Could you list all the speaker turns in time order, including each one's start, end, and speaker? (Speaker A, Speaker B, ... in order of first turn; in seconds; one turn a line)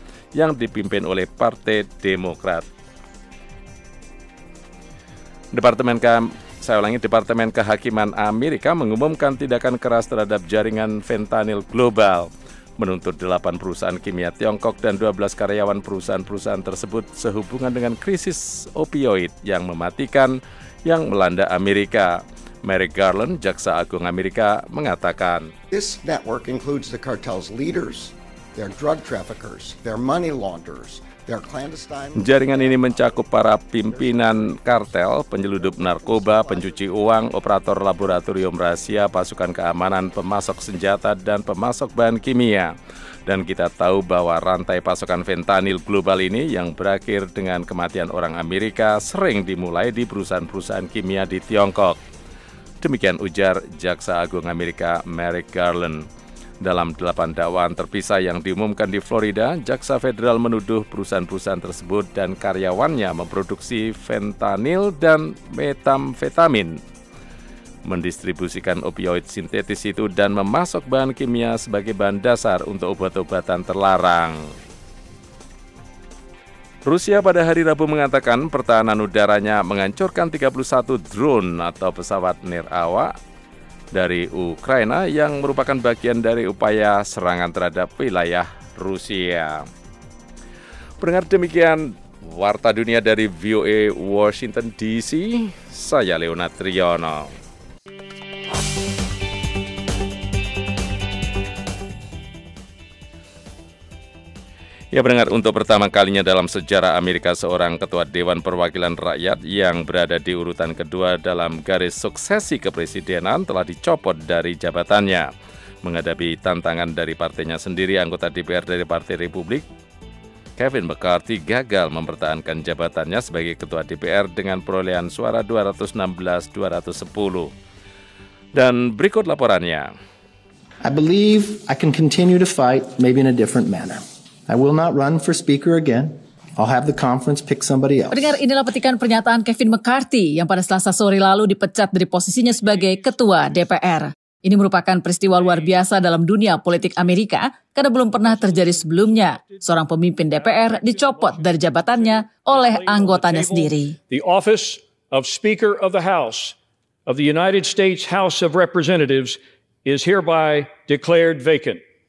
Speaker A: 0.3-2.6
Speaker A: 5.5-25.5
Speaker B: 25.7-33.2
Speaker A: 32.1-42.7
Speaker B: 33.9-34.4
Speaker B: 35.5-36.8
Speaker A: 43.2-52.0
Speaker A: 52.8-56.0
Speaker A: 56.6-66.8
Speaker A: 67.8-74.4
Speaker A: 76.8-83.1
Speaker A: 83.9-89.6
Speaker A: 91.0-97.3
Speaker A: 104.9-115.3
Speaker A: 115.8-119.6
Speaker A: 120.6-127.5
Speaker A: 128.5-129.9
Speaker C: 130.8-138.4
Speaker D: 138.1-153.9
Speaker E: 142.7-143.7
Speaker E: 145.4-145.7
Speaker E: 148.1-161.8